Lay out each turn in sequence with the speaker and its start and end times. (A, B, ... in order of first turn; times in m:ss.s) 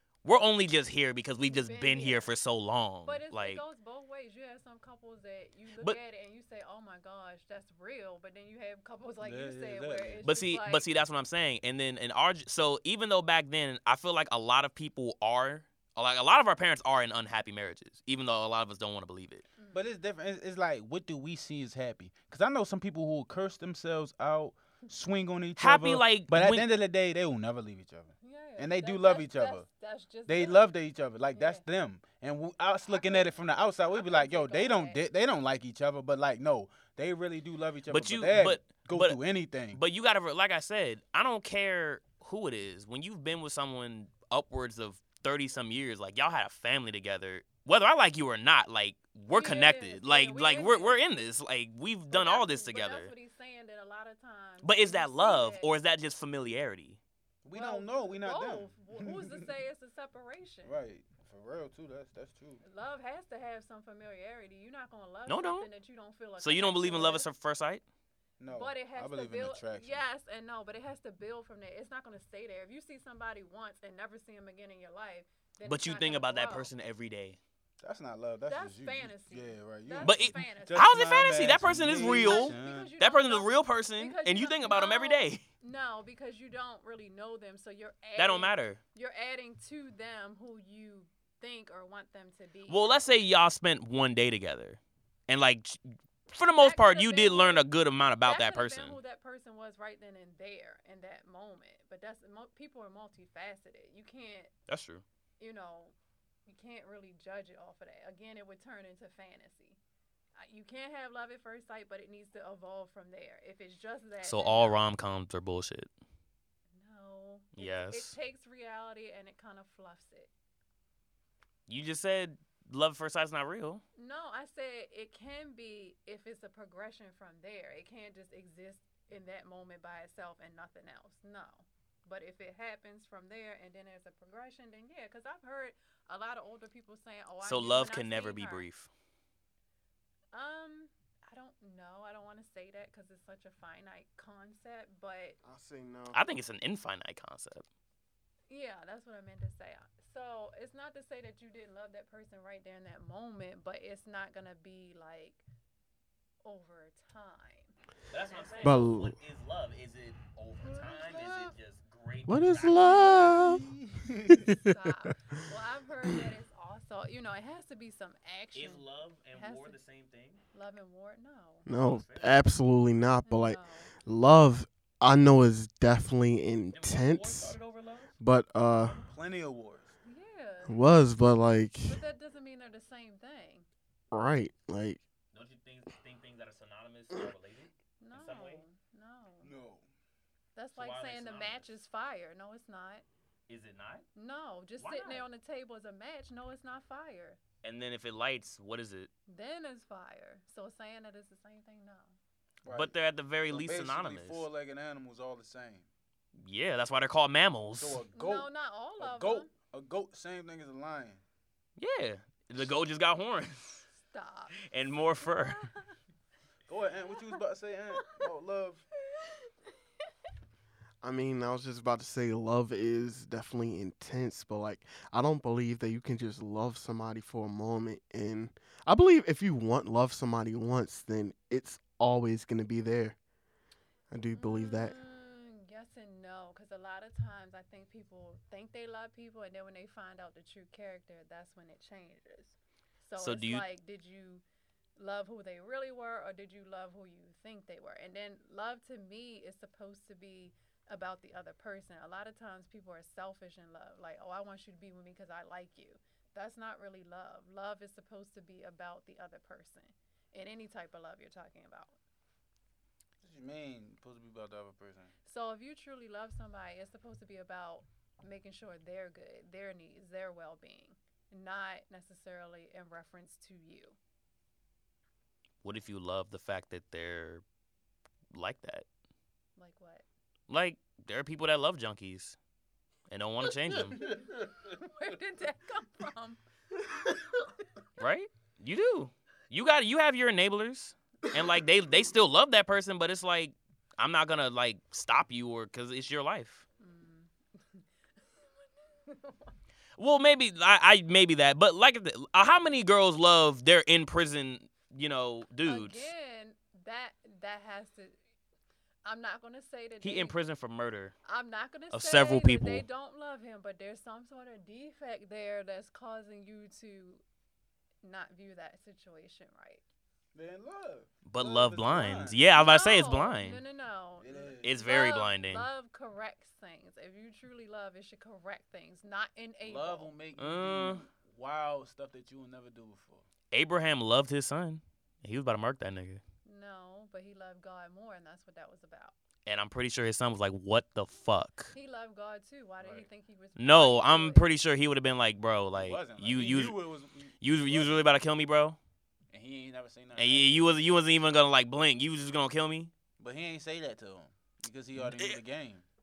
0:00.2-0:03.6 A
0:01.4-0:02.3 B
0:03.0-0:10.8 B
0:09.2-0:10.2 C
0:10.2-0:19.4 A
0:19.6-0:19.8 B
0:19.7-0:29.6 C
0:25.6-0:26.7 A
0:28.2-0:30.7 B
0:30.3-0:39.8 C
0:31.3-0:31.6 B
0:32.8-0:35.0 B
0:37.9-0:39.2 A
0:39.7-0:53.1 A
0:49.3-0:51.0 B
0:52.1-0:55.7 B
0:54.6-0:57.0 A
0:57.4-0:59.5 C
0:57.5-1:00.8 B
1:00.6-1:02.6 C
1:02.6-1:07.3 B
1:05.3-1:05.7 A
1:06.4-1:07.8 A
1:08.4-1:10.0 C
1:08.5-1:16.7 B
1:15.6-1:17.4 A
1:17.8-1:22.9 C
1:18.5-1:21.2 B
1:20.0-1:25.4 A
1:22.2-1:33.2 B
1:28.2-1:28.8 A
1:32.7-1:39.0 A
1:36.6-1:37.7 B
1:38.2-1:44.5 B
1:44.7-1:45.0 A
1:45.4-1:45.9 B
1:46.4-1:49.8 B
1:50.4-1:54.8 B
1:54.2-1:55.9 A
1:56.7-2:00.3 B
1:57.6-1:58.1 A
2:01.7-2:03.8 A
2:04.0-2:18.7 B
2:17.4-2:18.9 A
2:20.3-2:25.4 B
2:25.4-2:26.2 D
2:26.1-2:27.6 A
2:28.5-2:35.4 B
2:36.4-2:37.7 B
2:38.1-2:43.5 A
2:38.3-2:38.8 B
2:38.6-2:39.2 D
2:40.6-2:41.4 B
2:41.0-2:41.3 C
2:42.3-2:43.7 D
2:42.8-2:44.5 C
2:44.3-2:44.6 D
2:44.6-2:49.8 B
2:48.5-2:50.4 A
2:50.5-2:51.6 B
2:51.6-2:57.6 D
2:51.7-2:52.4 A
2:53.2-2:53.9 B
2:56.7-2:58.1 A
2:58.2-2:59.0 D
2:59.0-2:59.9 C
3:00.0-3:00.9 B
3:00.7-3:02.0 D
3:01.8-3:03.7 B
3:04.1-3:05.0 D
3:05.3-3:08.6 A
3:08.0-3:09.5 B
3:09.4-3:09.8 C
3:10.5-3:13.0 B
3:10.7-3:11.7 A
3:13.5-3:14.1 A
3:14.1-3:17.4 B
3:14.8-3:15.2 A
3:17.6-3:19.1 A
3:19.3-3:22.2 B
3:22.6-3:22.9 C
3:22.7-3:24.5 A
3:23.5-3:25.9 C
3:26.4-3:28.0 A
3:27.8-3:31.2 C
3:28.1-3:29.5 B
3:31.8-3:33.9 A
3:33.9-3:34.7 B
3:34.6-3:35.6 A
3:35.2-3:36.0 B
3:36.7-3:38.8 C
3:38.0-3:38.3 B
3:39.1-3:39.5 B
3:41.0-3:53.2 D
3:54.1-3:54.9 D
3:54.3-4:04.4 B
4:03.2-4:03.6 A
4:05.0-4:22.0 B
4:23.2-4:25.1 C
4:25.2-4:34.0 B
4:35.6-4:37.4 A
4:38.3-4:38.8 A
4:39.6-4:40.0 B
4:40.5-4:42.4 A
4:43.1-4:44.0 A
4:43.9-4:46.4 B
4:48.0-4:56.6 A
4:56.8-4:59.5 B
5:00.0-5:06.1 A
5:05.6-5:08.2 B
5:09.0-5:10.3 B
5:10.0-5:11.1 A
5:11.2-5:17.2 B
5:11.9-5:12.8 A
5:18.0-5:19.8 B
5:20.3-5:22.4 C
5:21.2-5:23.6 A
5:22.5-5:30.1 B
5:24.2-5:24.8 C
5:24.6-5:25.7 A
5:29.6-5:33.2 C
5:30.4-5:31.0 A
5:33.5-5:36.2 A
5:36.4-5:39.1 B
5:39.4-5:41.7 A
5:41.7-5:44.5 B
5:42.8-5:43.1 C
5:43.6-5:46.8 A
5:45.7-5:48.1 C
5:47.4-5:48.8 A
5:49.3-5:50.8 C
5:50.2-5:52.9 A
5:53.2-5:55.8 C
5:55.0-5:55.4 A